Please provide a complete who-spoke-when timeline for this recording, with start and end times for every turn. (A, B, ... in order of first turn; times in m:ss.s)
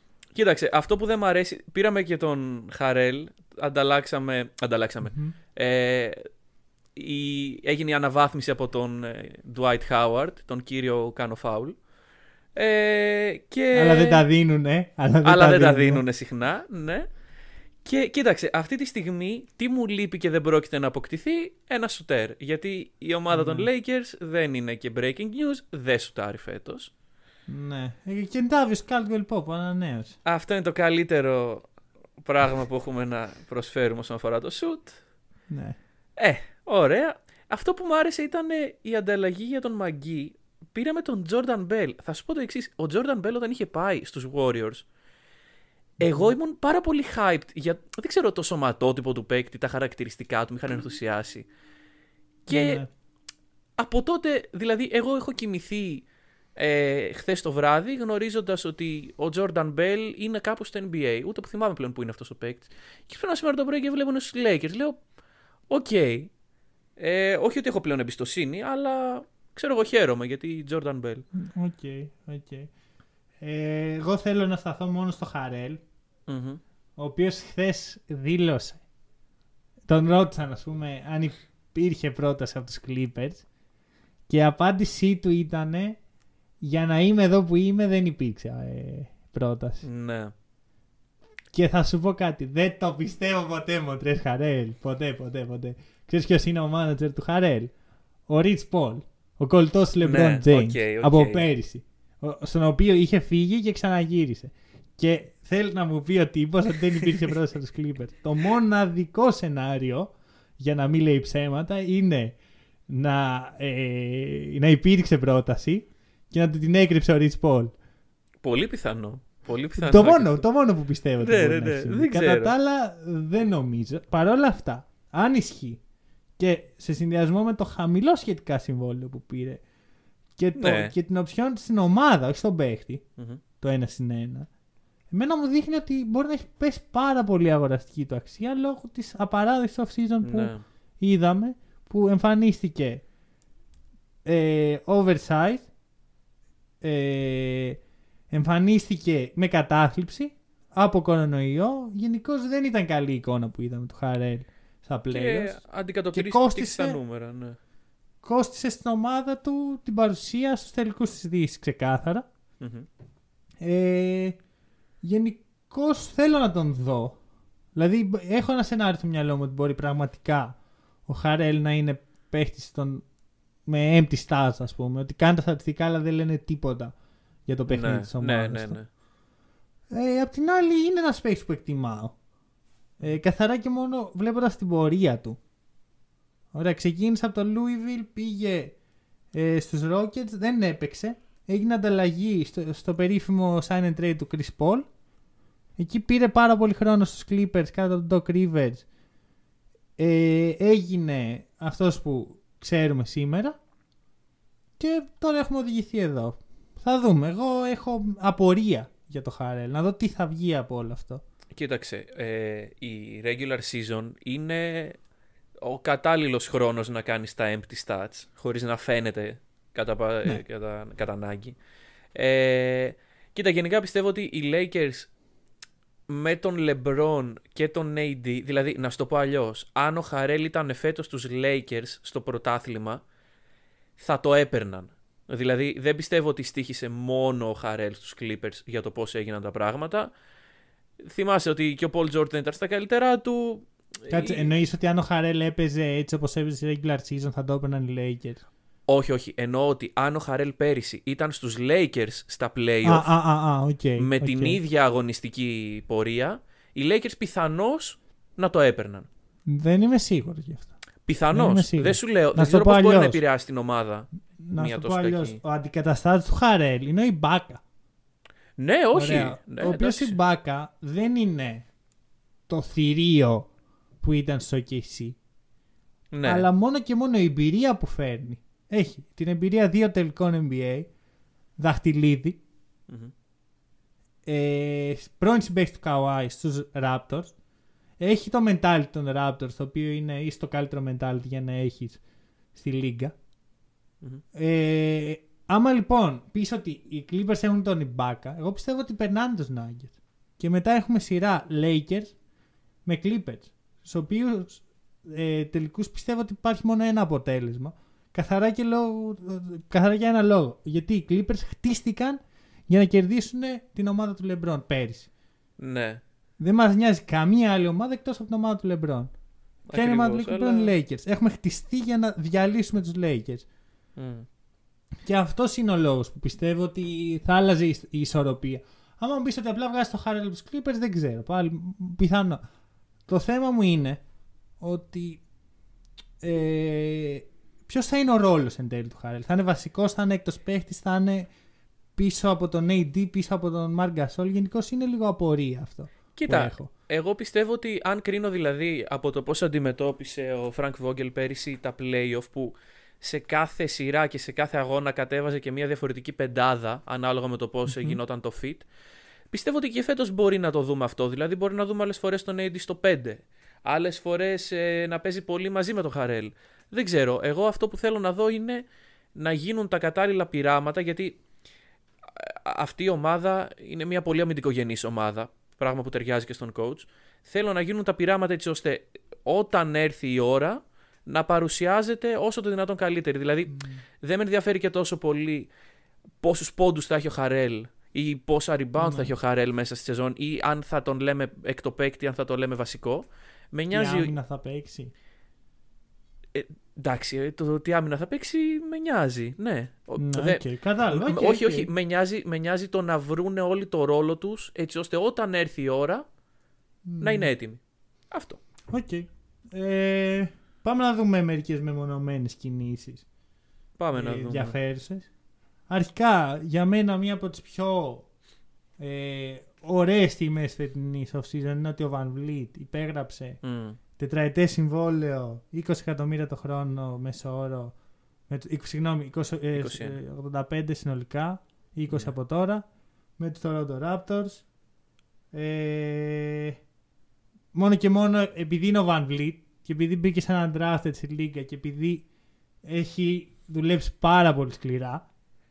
0:00.3-0:06.3 A
0:05.0-0:05.4 B
0:07.0-0:11.8 A
0:12.6-0:14.2 A
0:13.7-0:16.0 B
0:15.2-0:17.1 A
0:17.8-0:26.9 A
0:23.3-0:23.7 B
0:27.5-0:30.2 B
0:30.2-0:35.0 A
0:35.5-0:35.8 B
0:36.2-0:44.9 A
0:46.0-0:51.5 A
0:46.0-0:46.3 B
0:52.5-0:52.8 A
0:52.5-0:52.9 B
0:53.8-1:05.0 A
1:05.7-1:06.3 A
1:07.0-1:11.3 A
1:11.3-1:12.7 B
1:13.4-1:15.8 B
1:16.3-1:16.6 A
1:17.0-1:18.8 B
1:19.9-1:23.4 B
1:24.3-1:26.0 B
1:26.6-1:29.8 B
1:29.8-1:30.3 A
1:31.5-1:37.7 B
1:38.3-1:52.4 B
1:40.0-1:41.5 A
1:52.9-1:57.7 B
1:58.4-2:00.4 A
1:59.8-2:05.8 B
2:01.2-2:02.5 A
2:06.4-2:09.6 B
2:10.4-2:13.0 B
2:10.6-2:10.9 A
2:13.6-2:14.5 B
2:15.1-2:23.0 B
2:20.2-2:20.6 A
2:24.2-2:25.7 B
2:26.8-2:27.8 B
2:28.3-2:35.6 B
2:35.1-2:37.6 A
2:36.1-2:37.0 B
2:38.2-2:42.3 B
2:42.6-2:42.9 A
2:43.6-2:44.4 B
2:45.0-2:47.2 B
2:47.8-2:53.0 B
2:53.7-2:56.9 B
2:57.5-2:58.8 B
2:57.7-2:58.9 A
2:59.9-3:02.1 B
3:03.0-3:05.4 B
3:06.5-3:08.8 B
3:09.3-3:14.9 B
3:15.8-3:18.8 B
3:20.0-3:23.6 B
3:24.8-3:31.2 B
3:31.5-3:35.0 A
3:35.6-3:41.6 A
3:42.1-3:45.1 A
3:46.1-3:53.0 A
3:54.0-4:00.1 A
4:01.0-4:04.5 A
4:04.1-4:08.5 B
4:08.9-4:13.1 A
4:12.8-4:14.6 B
4:14.0-4:19.1 A
4:19.5-4:20.7 B
4:21.1-4:25.4 A
4:21.3-4:23.2 B
4:24.4-4:27.6 B
4:28.6-4:30.2 A
4:28.9-4:31.7 B
4:32.5-4:33.5 B
4:34.0-4:35.2 B
4:36.1-4:36.5 A
4:36.2-4:40.9 B
4:41.6-4:42.4 B
4:42.9-4:43.1 A
4:44.3-4:47.3 B
4:48.0-4:52.0 B
4:52.6-4:53.2 B
4:54.3-5:02.2 B
5:02.8-5:15.1 B
5:15.6-5:16.0 A
5:16.4-5:19.1 B
5:19.7-5:20.8 A
5:19.7-5:23.5 B
5:24.0-5:24.3 A
5:25.0-5:32.4 B
5:33.1-5:34.0 B
5:34.6-5:35.2 B
5:36.2-5:41.3 B
5:42.0-5:46.7 B
5:46.2-5:58.7 A
5:57.7-5:58.0 B
5:59.3-6:08.6 A
6:09.2-6:11.2 A
6:12.0-6:25.5 A
6:23.5-6:23.8 B
6:26.2-6:34.1 A
6:28.8-6:29.1 B
6:33.7-6:34.9 B
6:36.3-6:46.0 A
6:40.0-6:41.7 B
6:46.9-6:47.3 B
6:47.0-6:47.6 A
6:48.1-6:48.4 A
6:48.7-6:53.0 B
6:53.8-6:54.6 A
6:53.9-6:55.1 B
6:55.7-6:58.1 B
6:58.8-7:03.4 B
7:03.4-7:03.8 A
7:04.0-7:07.8 B
7:08.3-7:12.6 B
7:09.6-7:10.0 A
7:13.2-7:14.4 B
7:15.3-7:16.6 B
7:17.5-7:22.1 B
7:22.6-7:25.0 B